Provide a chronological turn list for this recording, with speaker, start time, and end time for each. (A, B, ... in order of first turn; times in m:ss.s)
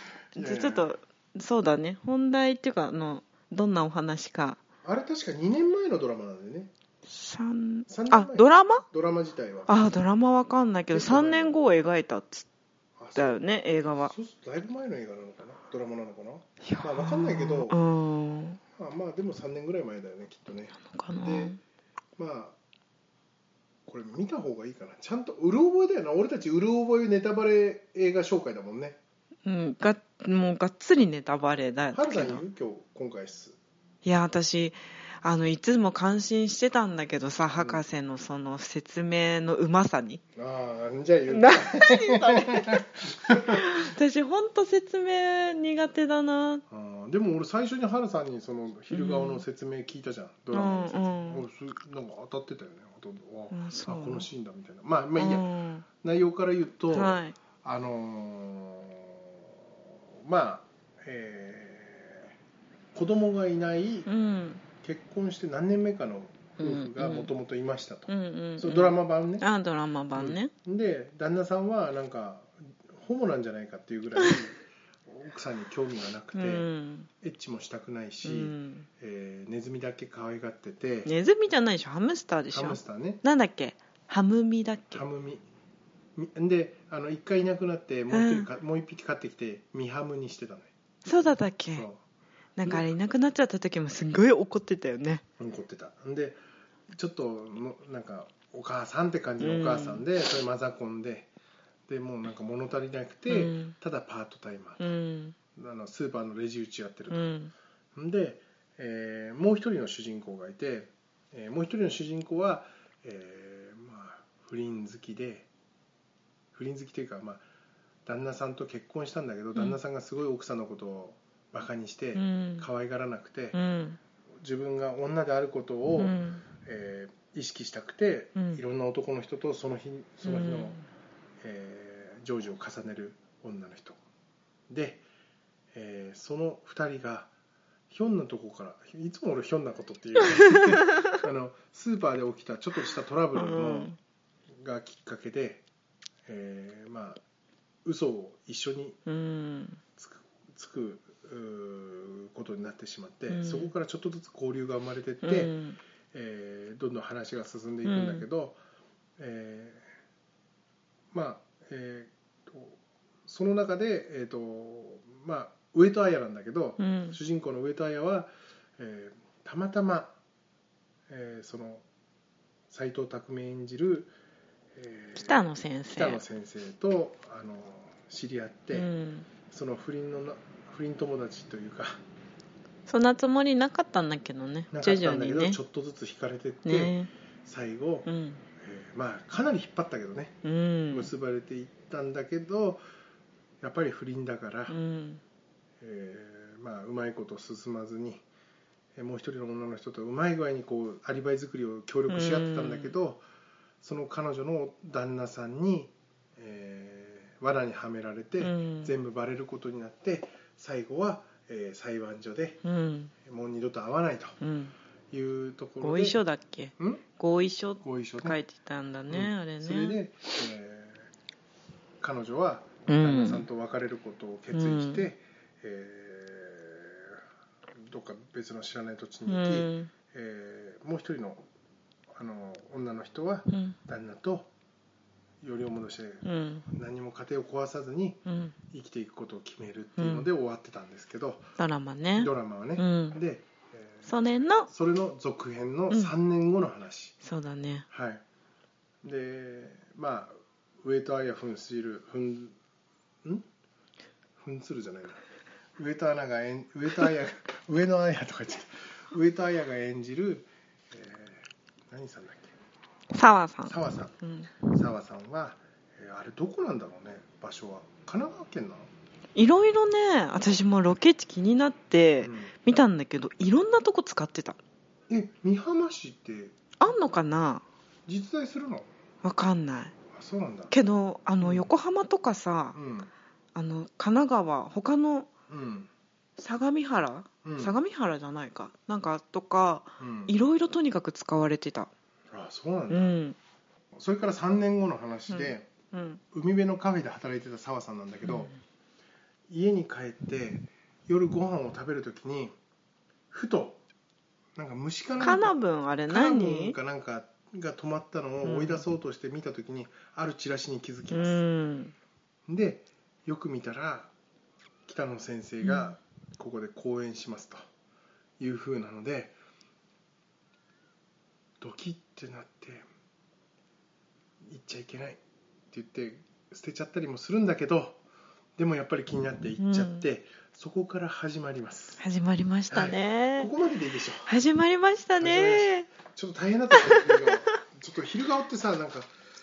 0:00.3-0:00.9 A
0:00.3-0:04.6 B
0:04.8-0:06.7 A
0:07.1-0:08.8 B
0:07.9-0:09.7 A
0:09.7-0:12.5 B
0:10.9-0:11.5 A
0:13.0-0:17.8 A
0:13.2-0:14.1 B
0:16.6-0:18.6 B
0:18.7-0:21.6 A
0:20.8-0:21.6 B
0:22.2-0:22.5 A
0:23.8-0:29.0 A
0:29.4-0:32.4 B
0:31.9-0:33.6 A
0:34.0-0:40.2 B
0:37.6-0:37.8 A
0:40.4-0:43.8 A
0:41.3-0:42.9 B
0:43.5-0:46.6 B
0:46.7-0:55.5 A
0:48.9-0:49.4 B
0:50.5-0:51.4 B
0:53.5-0:54.3 B
0:55.2-0:55.8 B
0:56.0-0:59.4 A
0:56.9-0:57.4 B
1:00.2-1:02.3 A
1:02.9-1:04.1 A
1:04.1-1:04.6 B
1:04.8-1:09.4 A
1:06.6-1:07.3 B
1:08.1-1:10.5 B
1:10.1-1:16.6 A
1:16.3-1:17.1 B
1:17.2-1:21.1 A
1:18.2-1:18.9 B
1:21.0-1:25.0 B
1:22.5-1:23.2 A
1:24.9-1:25.4 A
1:26.2-1:30.7 A
1:28.1-1:28.5 B
1:31.0-1:31.9 B
1:31.7-1:32.0 A
1:32.6-1:35.2 B
1:35.4-1:36.4 A
1:36.9-1:41.3 A
1:39.4-1:40.0 B
1:41.9-1:44.8 A
1:43.3-1:43.7 B
1:44.8-1:45.4 B
1:45.6-1:47.3 A
1:47.1-1:47.5 B
1:47.9-1:55.5 A
1:56.5-1:57.4 A
1:58.0-2:03.6 A
2:02.1-2:02.7 B
2:03.5-2:04.0 B
2:04.4-2:10.8 A
2:06.0-2:06.4 B
2:08.4-2:08.6 B
2:10.2-2:10.8 B
2:11.4-2:14.0 A
2:14.7-2:15.0 A
2:15.7-2:17.3 A
2:17.9-2:23.9 A
2:20.4-2:21.0 B
2:23.3-2:24.0 B
2:24.5-2:25.6 A
2:26.3-2:27.2 A
2:27.8-2:29.0 A
2:29.0-2:29.8 B
2:30.0-2:35.5 A
2:33.3-2:33.7 B
2:35.2-2:35.8 B
2:36.1-2:38.6 A
2:37.8-2:38.2 B
2:39.2-2:39.9 A
2:41.1-2:50.1 A
2:46.8-2:47.2 B
2:51.1-2:51.8 A
2:52.7-2:54.1 A
2:54.7-2:58.9 A
2:55.2-2:56.2 B
2:58.7-2:59.3 B
2:59.5-3:02.0 A
3:02.9-3:05.6 B
3:04.7-3:08.1 A
3:06.6-3:07.1 B
3:08.0-3:08.4 B
3:08.6-3:10.4 A
3:10.4-3:11.1 B
3:10.9-3:12.8 A
3:13.6-3:14.8 A
3:14.7-3:15.2 B
3:15.8-3:18.2 A
3:19.0-3:23.2 A
3:22.1-3:22.9 B
3:23.8-3:32.6 A
3:28.4-3:28.9 B
3:32.6-3:33.1 B
3:33.2-3:34.4 A
3:34.4-3:34.7 B
3:35.1-3:36.2 A
3:35.8-3:40.0 B
3:36.8-3:37.0 A
3:37.8-3:38.4 A
3:39.1-3:41.1 A
3:42.0-3:47.2 A
3:42.9-3:43.4 B
3:44.5-3:45.0 B
3:47.8-3:51.4 A
3:49.2-3:49.9 B
3:52.1-3:54.5 A
3:53.5-3:53.8 B
3:55.4-4:01.5 A
3:56.2-3:56.7 B
3:58.2-3:58.6 B
4:00.0-4:00.3 B
4:01.6-4:03.2 B
4:02.2-4:04.1 A
4:04.0-4:04.7 B
4:04.6-4:07.2 A
4:07.2-4:07.9 B
4:07.9-4:08.2 A
4:09.0-4:12.6 A
4:14.4-4:15.2 A
4:15.8-4:22.5 A
4:23.1-4:24.5 B
4:23.7-4:28.9 A
4:29.3-4:34.6 B
4:32.2-4:32.5 A
4:35.1-4:36.6 A
4:36.8-4:37.6 B
4:38.1-4:38.9 A
4:39.2-4:39.9 B
4:40.1-4:40.7 A
4:40.7-4:42.8 B
4:41.4-4:41.7 A
4:42.7-4:43.1 A
4:43.5-4:45.3 B
4:45.5-4:45.9 A
4:46.4-4:51.9 B
4:47.4-4:47.7 A
4:50.0-4:50.3 A
4:52.3-4:53.2 A
4:52.9-4:53.4 B
4:53.9-4:55.7 A
4:55.3-4:56.2 B
4:56.3-4:58.5 A
4:58.2-4:58.6 B
4:59.5-5:02.6 A
5:03.3-5:03.8 A
5:04.6-5:05.5 A
5:05.2-5:06.8 B
5:06.1-5:11.4 A
5:08.4-5:08.8 B
5:11.1-5:11.9 B
5:12.5-5:14.1 A
5:14.9-5:17.6 A
5:15.6-5:16.0 B
5:18.4-5:19.3 A
5:21.6-5:22.8 A
5:24.5-5:25.2 A
5:25.7-5:28.0 A
5:28.6-5:32.0 A
5:29.6-5:30.0 B
5:32.0-5:33.5 B
5:32.7-5:34.3 A
5:34.2-5:35.9 B
5:35.2-5:39.1 A
5:36.7-5:37.6 B